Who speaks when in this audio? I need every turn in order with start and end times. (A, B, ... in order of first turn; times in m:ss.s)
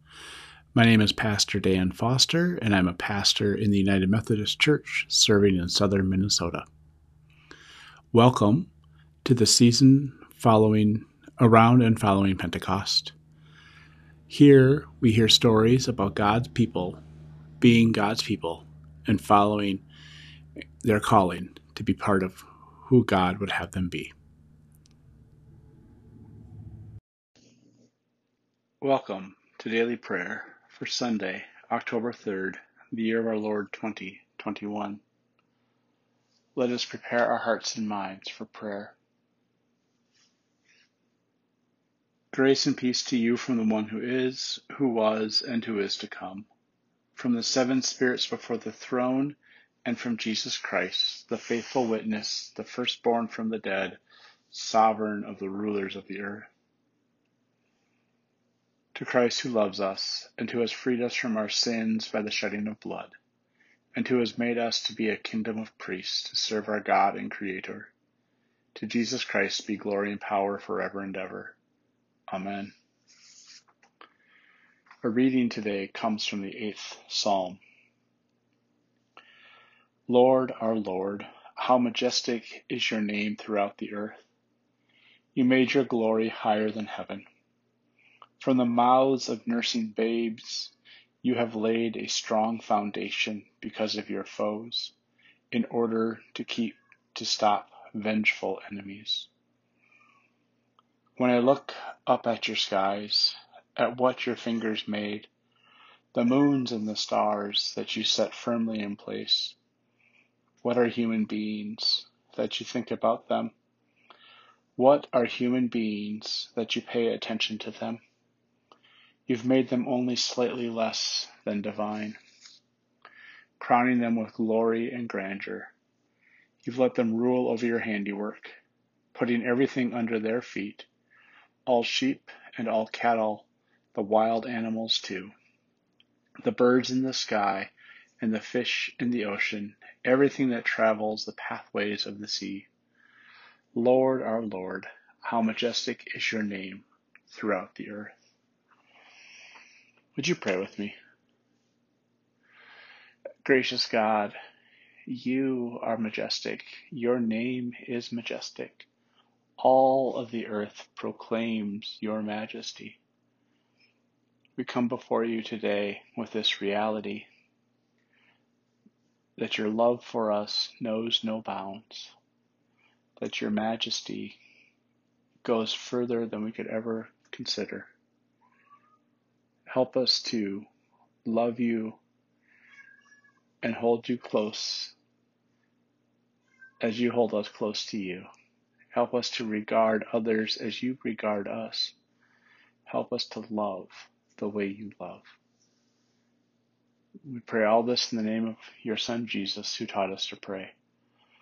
0:00.7-0:06.7 A
0:08.1-0:08.7 A
0:09.2-0:13.2 A
0:14.3-0:17.0 A
0:17.6-0:19.8 A
0:20.8-0:24.1 A
0:28.8-0:35.0 A
0:36.6-0:39.0 A
0:42.3-0:46.5 A
0:47.2-0:54.0 A
0:54.5-0:56.5 A
0:58.9-1:03.2 A
1:04.0-1:07.9 A
1:08.7-1:11.6 A
1:12.3-1:12.7 A
1:15.0-1:17.6 A
1:20.1-1:24.2 A
1:25.4-1:27.3 A
1:28.4-1:35.0 A
1:35.5-1:39.3 A
1:41.2-1:45.3 A
1:46.1-1:49.6 A
1:50.6-1:53.5 A
1:54.8-1:58.0 A
1:59.3-2:02.2 A
2:03.6-2:05.7 A
2:06.6-2:08.6 A
2:09.1-2:10.9 A
2:11.7-2:15.3 A
2:16.4-2:22.7 A
2:23.7-2:28.2 A
2:30.2-2:31.0 A
2:33.4-2:34.4 A
2:35.1-2:38.9 A
2:39.6-2:43.0 A
2:44.6-2:47.3 A
2:49.4-2:52.2 A
2:53.2-2:54.4 A
2:55.4-2:57.9 A
2:59.7-3:00.7 A
3:01.2-3:02.0 A
3:03.6-3:05.0 A
3:06.8-3:08.3 A
3:08.9-3:12.0 A
3:12.9-3:15.4 A
3:17.2-3:20.7 A